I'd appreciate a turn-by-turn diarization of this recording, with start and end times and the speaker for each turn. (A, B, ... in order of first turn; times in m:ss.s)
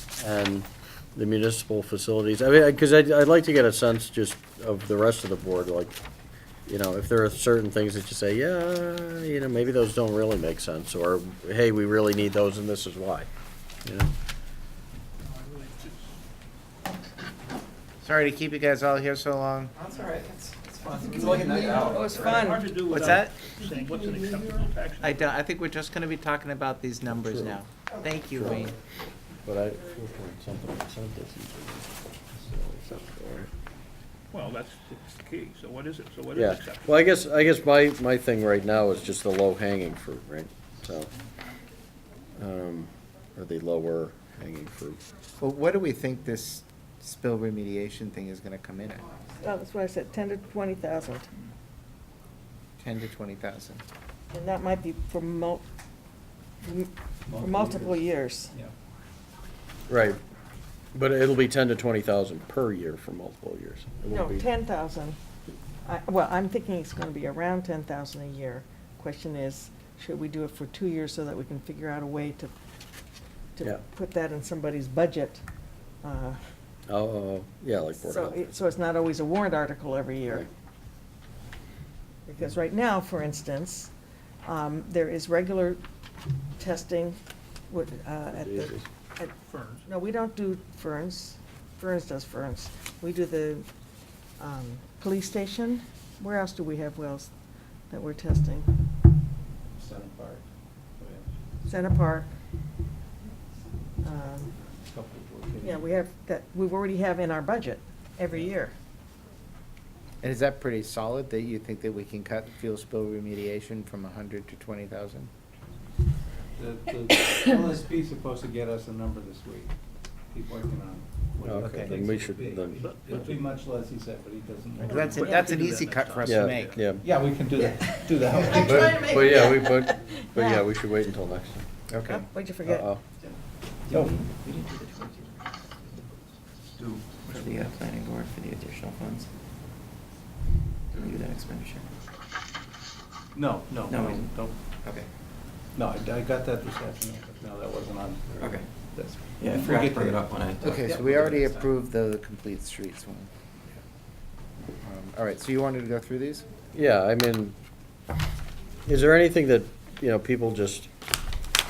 0:00.2-0:06.0 A
0:06.6-0:13.3 A
0:13.8-0:14.1 A
0:15.2-0:16.1 B
0:18.0-0:23.6 C
0:19.9-0:22.4 D
0:21.7-0:22.7 E
0:22.2-0:25.4 B
0:25.0-0:28.8 C
0:27.0-0:27.6 A
0:28.3-0:28.7 A
0:29.4-0:33.5 A
0:34.3-0:37.2 B
0:36.3-0:41.1 A
0:42.4-0:45.0 A
0:45.4-0:49.1 C
0:49.4-0:51.3 E
0:52.8-0:53.8 C
0:54.3-0:55.6 E
0:56.6-0:58.5 E
0:57.3-0:58.7 F
0:59.9-1:00.2 A
1:00.9-1:04.5 A
1:04.1-1:05.2 E
1:05.8-1:12.5 E
1:13.6-1:15.4 E
1:16.0-1:16.4 E
1:16.9-1:18.4 A
1:18.0-1:20.5 E
1:22.2-1:23.9 E
1:24.4-1:25.8 E
1:26.6-1:33.7 E
1:28.3-1:28.8 A
1:29.5-1:29.8 B
1:34.4-1:37.3 E
1:37.9-1:38.7 E
1:39.8-1:41.4 F
1:41.6-1:42.3 E
1:44.0-1:44.5 E
1:44.8-1:45.9 F
1:45.6-1:48.7 E
1:50.2-1:55.3 C
1:56.6-1:59.7 F
2:00.3-2:05.4 F
2:01.4-2:03.2 A
2:01.6-2:02.0 C
2:02.8-2:03.4 B
2:04.8-2:06.9 C
2:04.9-2:06.9 B
2:06.2-2:07.0 A
2:07.0-2:09.2 F
2:08.3-2:10.6 E
2:08.5-2:11.7 A
2:11.9-2:12.3 C
2:12.0-2:12.9 E
2:12.6-2:13.0 A
2:13.9-2:15.4 D
2:13.9-2:14.3 F
2:16.8-2:17.6 F
2:16.8-2:19.3 D
2:20.9-2:21.9 D
2:23.3-2:24.5 F
2:23.9-2:25.1 D
2:25.7-2:31.6 F
2:28.4-2:28.7 D
2:29.4-2:30.8 D
2:30.6-2:33.3 C
2:34.8-2:36.4 C
2:36.7-2:37.6 A
2:38.8-2:40.9 A